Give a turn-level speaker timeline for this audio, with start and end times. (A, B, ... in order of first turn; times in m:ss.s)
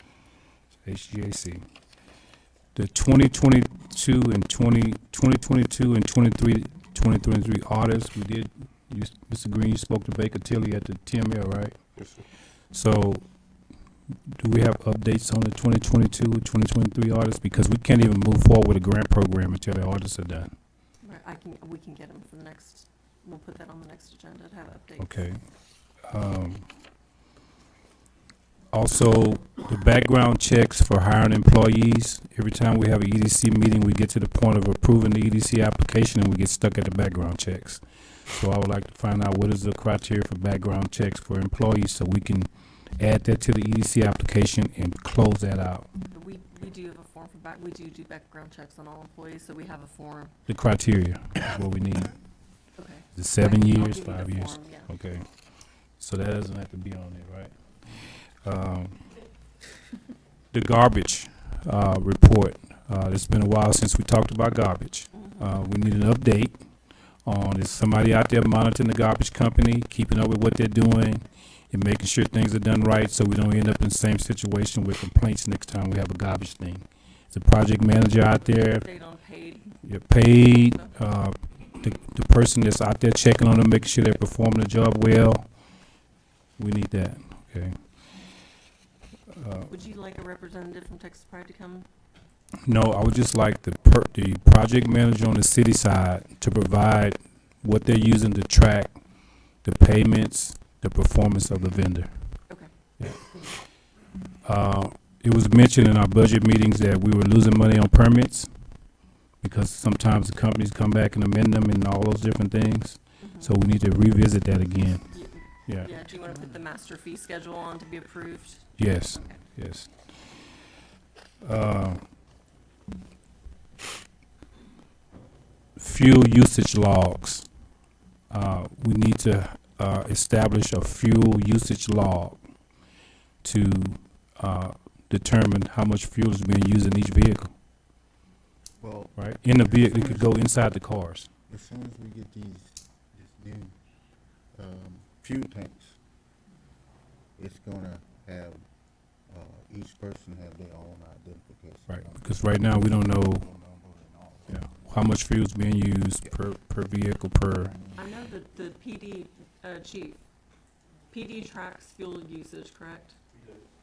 0:00.8-0:01.6 A
0:02.8-0:11.8 A
0:12.7-0:13.2 A
0:14.3-0:20.5 A
0:21.0-0:25.2 B
0:25.0-0:25.4 A
0:26.1-0:26.7 A
0:28.7-0:45.9 A
0:46.1-0:50.3 B
0:50.5-0:52.1 A
0:52.8-0:54.9 B
0:53.1-0:55.3 A
0:56.0-0:57.5 A
0:58.4-0:59.0 A
1:00.5-1:06.6 A
1:05.2-1:05.4 B
1:07.3-1:18.9 A
1:18.4-1:20.9 B
1:19.8-1:25.4 A
1:26.6-1:27.8 A
1:29.3-1:29.7 A
1:29.7-1:31.9 B
1:32.7-1:38.9 A
1:39.6-1:42.1 A
1:44.4-1:48.5 A
1:49.4-1:55.1 A
1:53.2-1:53.6 B
1:55.1-1:59.3 B
1:55.7-1:55.9 A
1:58.8-1:59.9 A
2:01.4-2:02.0 A
2:05.8-2:07.4 A
2:08.3-2:12.4 A
2:13.4-2:17.5 A
2:18.8-2:20.4 C
2:19.2-2:21.3 A
2:21.5-2:23.7 C
2:24.5-2:26.0 C
2:27.4-2:28.6 C
2:29.3-2:34.5 C
2:31.9-2:33.5 A
2:34.5-2:37.8 A
2:38.0-2:40.2 B
2:41.1-2:43.2 B